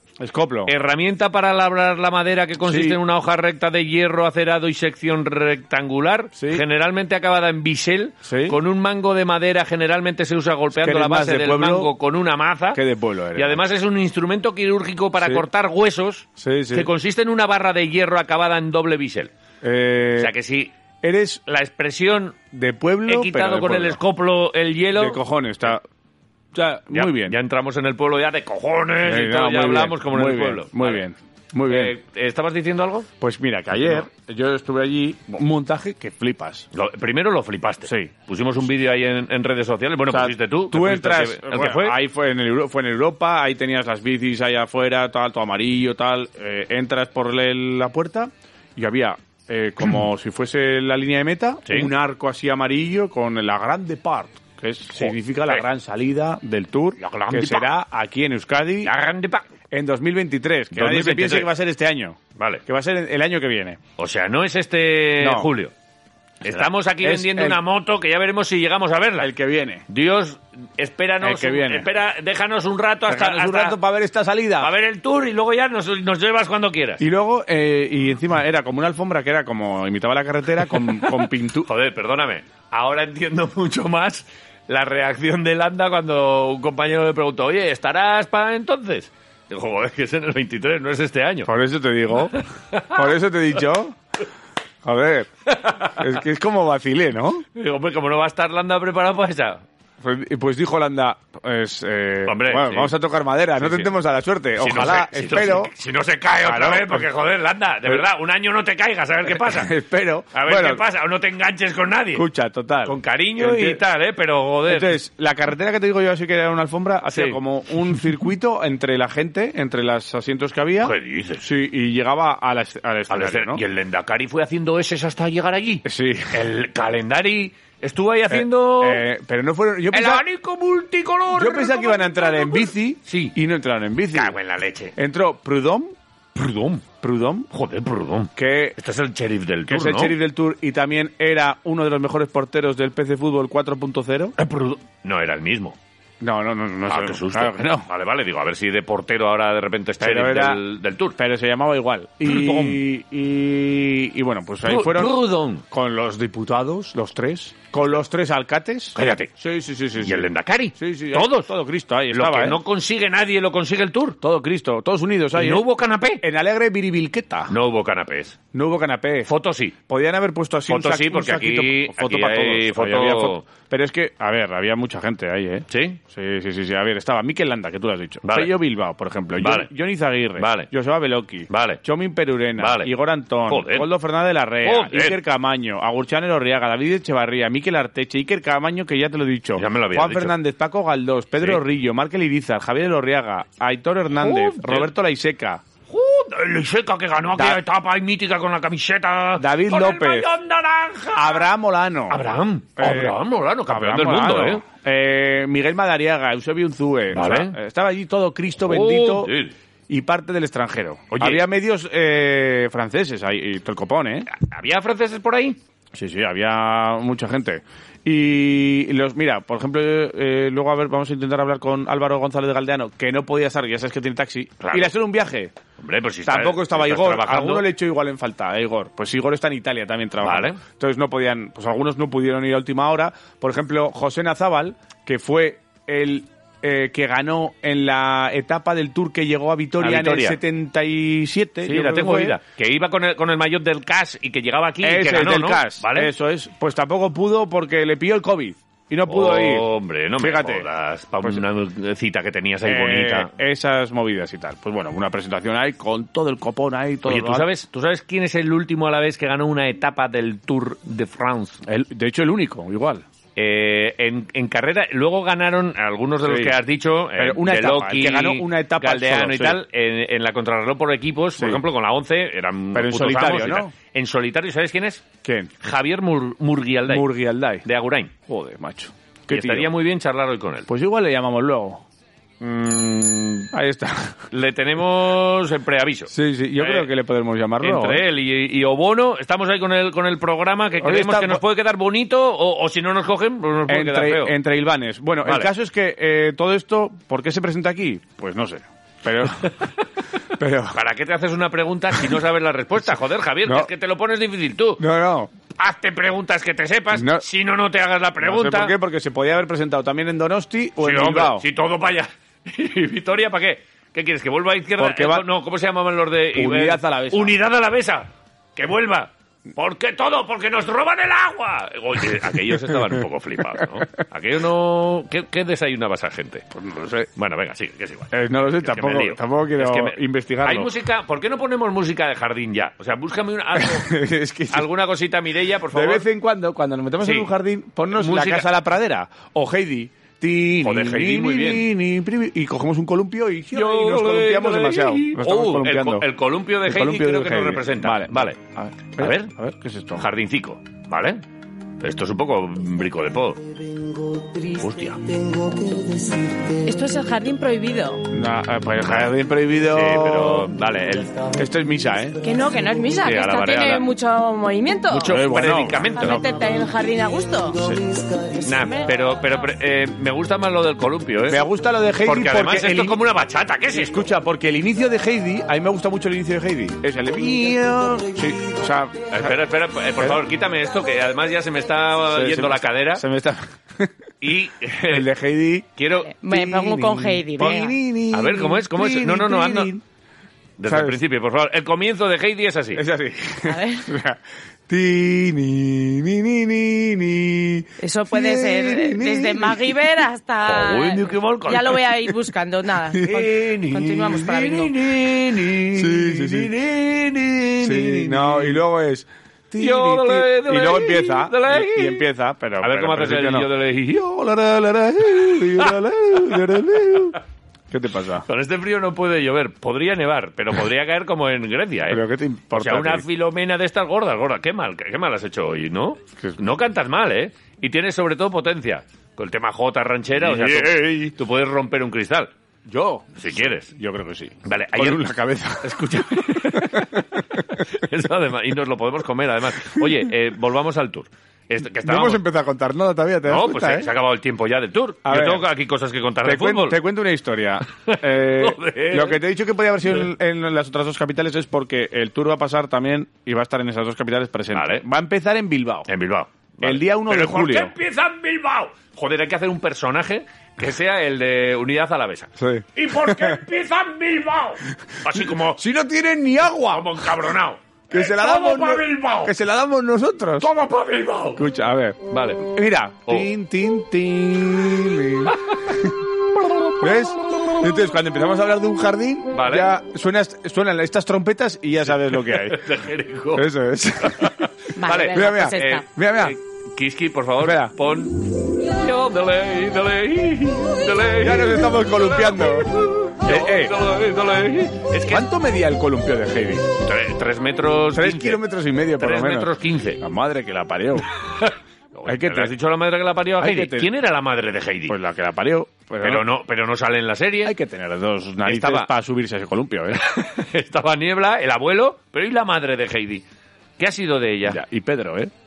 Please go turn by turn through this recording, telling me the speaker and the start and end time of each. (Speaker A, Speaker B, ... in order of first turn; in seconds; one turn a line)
Speaker A: 0.2-0.7
Speaker B: 0.7-12.8
Speaker A: 2.6-3.0
Speaker A: 6.4-6.6
Speaker A: 8.2-8.6
Speaker A: 10.8-11.9
Speaker A: 12.7-13.6
Speaker B: 13.4-19.3
Speaker A: 16.4-16.9
Speaker A: 19.6-20.3
Speaker B: 20.2-20.7
Speaker A: 21.0-21.4
Speaker B: 21.5-22.4
Speaker A: 22.5-24.0
Speaker B: 23.1-25.2
Speaker A: 24.9-25.8
Speaker A: 26.5-27.4
Speaker B: 26.9-31.0
Speaker A: 29.0-31.9
Speaker B: 31.7-33.1
Speaker A: 33.2-36.7
Speaker B: 36.7-42.0
Speaker A: 37.9-38.1
Speaker A: 40.1-58.9
Speaker B: 51.7-51.9
Speaker B: 55.0-55.6
Speaker B: 57.0-57.7
Speaker B: 58.8-59.5
Speaker A: 59.7-63.8
Speaker B: 60.7-61.5
Speaker B: 62.4-62.6
Speaker B: 64.0-65.7
Speaker A: 65.2-65.5
Speaker B: 66.4-69.3
Speaker A: 66.5-67.6
Speaker A: 69.2-69.9
Speaker B: 69.9-73.8
Speaker A: 71.2-71.9
Speaker A: 73.1-74.7
Speaker B: 74.6-77.0
Speaker A: 77.0-81.7
Speaker B: 81.6-91.5
Speaker A: 91.5-92.4
Speaker B: 92.3-93.1
Speaker A: 92.9-94.0
Speaker A: 94.8-95.3
Speaker B: 95.5-96.1
Speaker A: 96.0-97.4
Speaker B: 97.5-99.6
Speaker A: 100.0-105.7
Speaker B: 102.3-102.9
Speaker B: 103.6-103.9
Speaker B: 104.6-109.7
Speaker A: 106.4-107.1
Speaker A: 109.3-110.8
Speaker B: 110.3-112.3
Speaker A: 112.1-113.8
Speaker B: 112.8-115.0
Speaker A: 114.7-123.6
Speaker B: 117.1-117.4
Speaker B: 120.8-121.5
Speaker B: 123.1-129.1
Speaker A: 125.8-126.5
Speaker A: 128.3-130.2
Speaker B: 129.9-133.3
Speaker A: 131.3-134.3
Speaker B: 134.1-134.9
Speaker A: 135.0-135.9
Speaker B: 136.3-136.8
Speaker A: 137.0-137.5
Speaker B: 137.5-140.1
Speaker A: 138.4-138.8
Speaker A: 139.7-144.3
Speaker B: 144.4-145.8
Speaker A: 146.2-147.9
Speaker B: 146.9-151.2
Speaker A: 150.0-150.6
Speaker A: 151.2-155.2
Speaker B: 152.2-152.8
Speaker B: 154.7-155.6
Speaker A: 155.7-162.6
Speaker B: 158.9-159.3
Speaker B: 160.0-161.5
Speaker B: 162.1-164.2
Speaker A: 164.2-165.7
Speaker B: 165.3-166.2
Speaker A: 166.2-167.5
Speaker B: 167.5-168.4
Speaker A: 168.5-169.3
Speaker B: 169.3-169.8
Speaker A: 169.9-195.6
Speaker B: 170.7-173.5
Speaker B: 175.7-176.0
Speaker B: 178.2-178.5
Speaker B: 179.4-179.7
Speaker B: 180.4-180.7
Speaker B: 181.5-181.8
Speaker B: 182.6-182.9
Speaker B: 183.5-183.9
Speaker B: 184.6-185.2
Speaker B: 189.6-190.3
Speaker B: 194.2-194.9
Speaker B: 195.9-201.5
Speaker A: 197.3-197.6
Speaker A: 199.4-200.3
Speaker A: 201.1-202.2
Speaker B: 202.1-204.6
Speaker A: 202.8-209.3
Speaker B: 207.1-207.6
Speaker B: 208.7-209.5
Speaker A: 209.9-214.3
Speaker B: 211.1-211.4
Speaker B: 214.3-215.6
Speaker A: 215.9-225.5
Speaker B: 224.6-224.9
Speaker B: 225.8-227.7
Speaker A: 226.2-242.4
Speaker B: 230.2-230.6
Speaker B: 239.8-240.4
Speaker B: 241.6-246.1
Speaker A: 244.8-250.7
Speaker B: 249.1-253.3
Speaker A: 252.6-257.5
Speaker B: 257.1-261.6
Speaker A: 261.7-263.1
Speaker B: 263.4-275.1
Speaker A: 266.2-266.6
Speaker A: 267.1-269.6
Speaker A: 271.4-271.6
Speaker A: 272.7-273.7
Speaker A: 275.2-275.5
Speaker B: 275.6-278.1
Speaker A: 276.9-277.6
Speaker A: 278.2-279.7
Speaker B: 279.3-280.7
Speaker A: 280.7-281.8
Speaker B: 282.4-283.5
Speaker A: 283.5-284.2
Speaker B: 284.3-286.9
Speaker A: 286.1-288.0
Speaker B: 287.6-294.4
Speaker A: 290.8-291.4
Speaker A: 293.7-299.5
Speaker B: 295.2-295.5
Speaker A: 300.4-300.8
Speaker B: 300.7-304.8
Speaker A: 303.4-303.7
Speaker A: 304.8-305.3
Speaker B: 305.6-308.8
Speaker A: 306.9-307.2
Speaker A: 308.2-311.4
Speaker B: 310.8-326.5
Speaker A: 314.8-315.2
Speaker A: 316.3-317.4
Speaker A: 326.5-327.1
Speaker B: 327.2-334.0
Speaker A: 328.1-330.7
Speaker A: 333.6-334.7
Speaker B: 334.5-336.1
Speaker A: 335.7-346.1
Speaker B: 337.0-337.3
Speaker B: 337.9-338.5
Speaker B: 340.6-341.7
Speaker B: 343.5-348.4
Speaker A: 346.6-350.1
Speaker B: 349.0-349.3
Speaker B: 350.0-351.2
Speaker B: 351.8-353.4
Speaker B: 354.5-355.0
Speaker C: 356.6-358.0
Speaker A: 358.1-360.5
Speaker B: 358.8-359.1
Speaker B: 359.7-361.3
Speaker A: 361.4-362.2
Speaker C: 362.2-365.2
Speaker B: 363.0-363.9
Speaker B: 364.9-366.2
Speaker A: 365.1-366.2
Speaker C: 366.0-367.6
Speaker A: 367.6-367.8
Speaker B: 368.4-371.5
Speaker A: 371.3-373.0
Speaker B: 372.0-374.1
Speaker A: 373.7-379.3
Speaker B: 379.1-383.1
Speaker A: 382.1-383.9
Speaker B: 384.2-385.1
Speaker A: 384.9-385.7
Speaker B: 385.8-386.1
Speaker C: 386.1-387.7
Speaker A: 386.3-389.8
Speaker B: 388.1-389.7
Speaker B: 390.6-392.8
Speaker A: 390.7-391.0
Speaker A: 392.8-399.9
Speaker C: 393.5-393.9
Speaker C: 397.8-404.8
Speaker B: 400.4-402.1
Speaker A: 402.9-403.4
Speaker B: 403.0-408.6
Speaker A: 405.7-406.5
Speaker A: 407.6-417.2
Speaker B: 409.6-412.1
Speaker B: 412.6-414.3
Speaker B: 415.1-417.1
Speaker A: 417.7-418.3
Speaker B: 418.3-432.3
Speaker A: 421.9-423.1
Speaker A: 430.2-431.1
Speaker A: 432.7-437.4
Speaker B: 433.2-433.7
Speaker B: 434.4-435.1
Speaker B: 435.6-442.2
Speaker A: 441.8-443.9
Speaker B: 443.3-446.8
Speaker A: 445.1-445.5
Speaker A: 446.2-455.9
Speaker B: 447.9-449.2
Speaker B: 454.5-454.8
Speaker B: 455.9-465.6
Speaker A: 456.6-457.7
Speaker A: 462.4-463.4
Speaker A: 465.1-467.2
Speaker B: 466.7-469.3
Speaker A: 467.9-470.5
Speaker B: 470.4-471.4
Speaker A: 471.4-475.9
Speaker B: 472.1-472.4
Speaker B: 475.3-475.7
Speaker A: 476.8-482.7
Speaker B: 479.3-479.7
Speaker B: 482.2-483.5
Speaker A: 483.3-484.4
Speaker B: 484.0-495.3
Speaker C: 484.8-485.9
Speaker A: 485.1-486.4
Speaker A: 487.4-487.8
Speaker A: 491.2-493.8
Speaker A: 495.1-496.7
Speaker B: 496.8-498.4
Speaker A: 497.9-501.1
Speaker B: 499.0-500.0
Speaker B: 501.2-505.0
Speaker A: 502.1-502.5
Speaker A: 503.4-503.9
Speaker A: 504.9-506.3
Speaker B: 506.0-507.5
Speaker A: 507.4-510.0
Speaker B: 508.4-508.9
Speaker B: 510.0-513.2
Speaker B: 513.8-514.6
Speaker A: 514.5-515.3